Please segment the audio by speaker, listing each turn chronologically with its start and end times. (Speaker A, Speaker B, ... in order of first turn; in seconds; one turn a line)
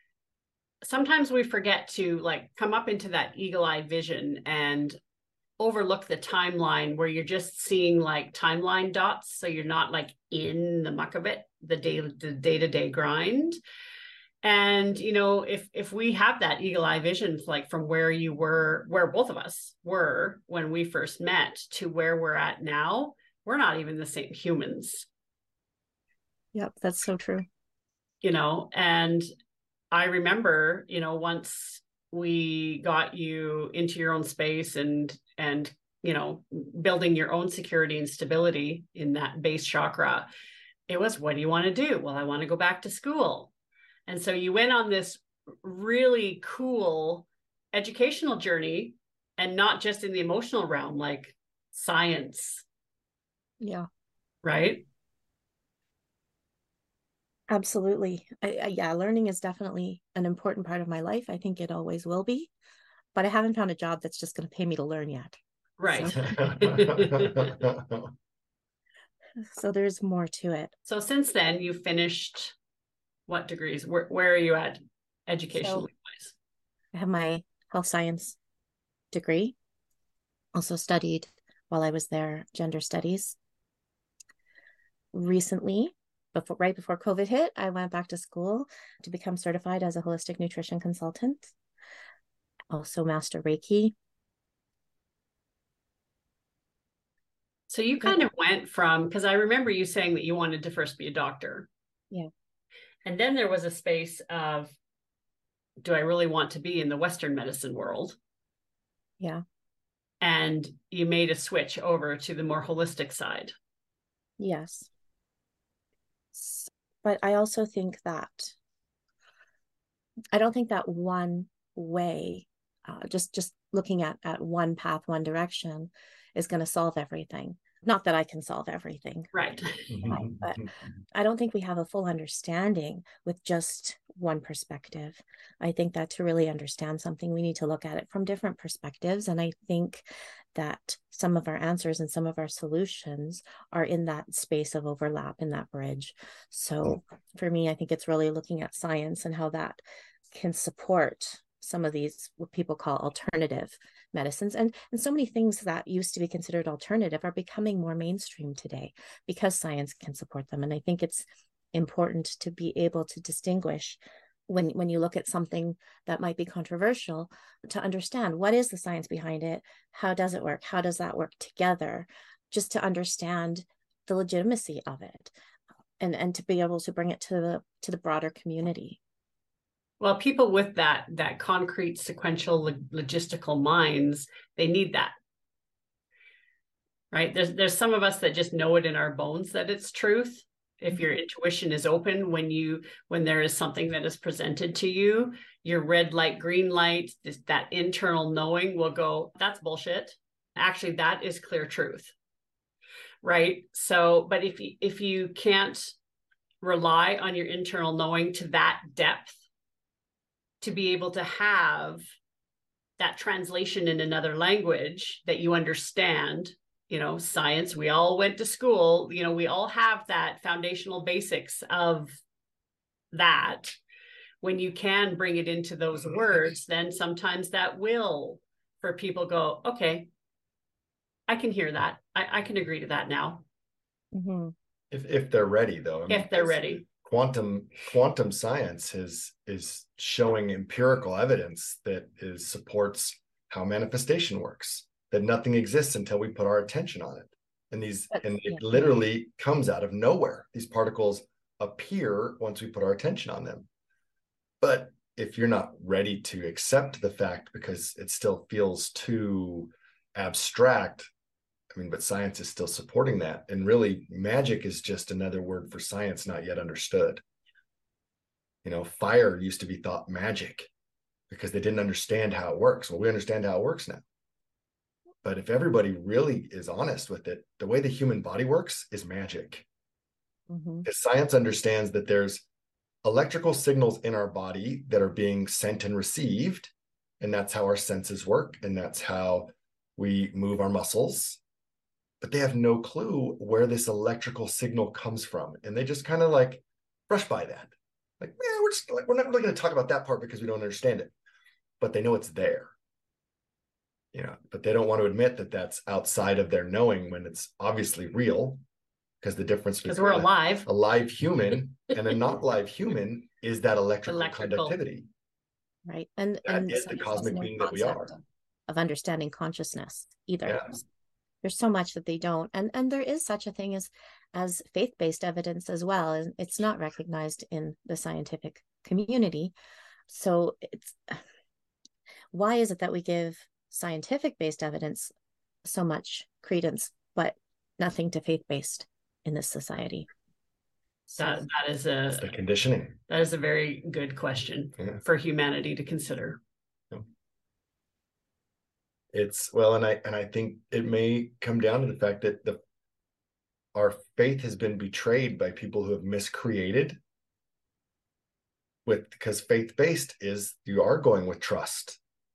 Speaker A: 0.8-5.0
Speaker A: 5.6-13.6
Speaker A: 14.4-25.1
Speaker B: 26.5-27.4
Speaker A: 28.2-29.2
Speaker A: 29.9-40.3
Speaker A: 40.9-43.5
Speaker A: 44.1-52.6
Speaker B: 53.6-53.9
Speaker A: 54.4-54.8
Speaker B: 57.5-62.5
Speaker B: 63.1-65.3
Speaker A: 65.8-67.6
Speaker B: 65.9-66.3
Speaker C: 66.1-68.1
Speaker B: 69.4-70.7
Speaker A: 70.9-72.5
Speaker A: 73.3-76.3
Speaker B: 75.5-75.8
Speaker B: 76.9-78.4
Speaker B: 79.1-79.5
Speaker B: 80.5-83.3
Speaker B: 85.1-91.5
Speaker B: 92.7-93.9
Speaker A: 97.7-101.7
Speaker A: 103.0-104.8
Speaker A: 105.8-108.2
Speaker A: 110.2-113.5
Speaker B: 114.4-114.9
Speaker B: 116.3-118.5
Speaker B: 120.3-129.3
Speaker A: 129.3-130.1
Speaker C: 129.9-130.6
Speaker B: 130.1-149.8
Speaker B: 150.3-175.3
Speaker B: 176.0-179.0
Speaker A: 180.0-185.1
Speaker A: 187.1-202.1
Speaker A: 203.2-205.9
Speaker A: 206.6-209.4
Speaker A: 210.6-212.0
Speaker A: 213.0-222.2
Speaker A: 223.1-223.8
Speaker A: 224.4-230.1
Speaker A: 231.3-233.4
Speaker B: 234.1-234.5
Speaker C: 234.9-253.7
Speaker A: 236.1-236.8
Speaker B: 248.1-248.9
Speaker C: 254.6-261.1
Speaker C: 261.7-267.2
Speaker C: 268.6-270.7
Speaker C: 271.3-274.0
Speaker C: 275.2-279.6
Speaker B: 280.5-280.9
Speaker C: 280.9-282.4
Speaker C: 283.0-291.4
Speaker C: 292.2-301.1
Speaker C: 301.8-302.7
Speaker C: 304.1-308.6
Speaker C: 309.2-315.1
Speaker A: 309.9-310.7
Speaker A: 314.1-314.8
Speaker B: 315.9-320.8
Speaker C: 316.4-318.1
Speaker B: 321.4-329.5
Speaker B: 330.1-331.2
Speaker B: 332.3-335.1
Speaker B: 335.6-340.1
Speaker A: 341.1-342.3
Speaker B: 341.2-341.4
Speaker C: 342.1-343.0
Speaker A: 343.1-346.4
Speaker C: 349.1-352.6
Speaker C: 353.7-357.0
Speaker C: 358.9-362.0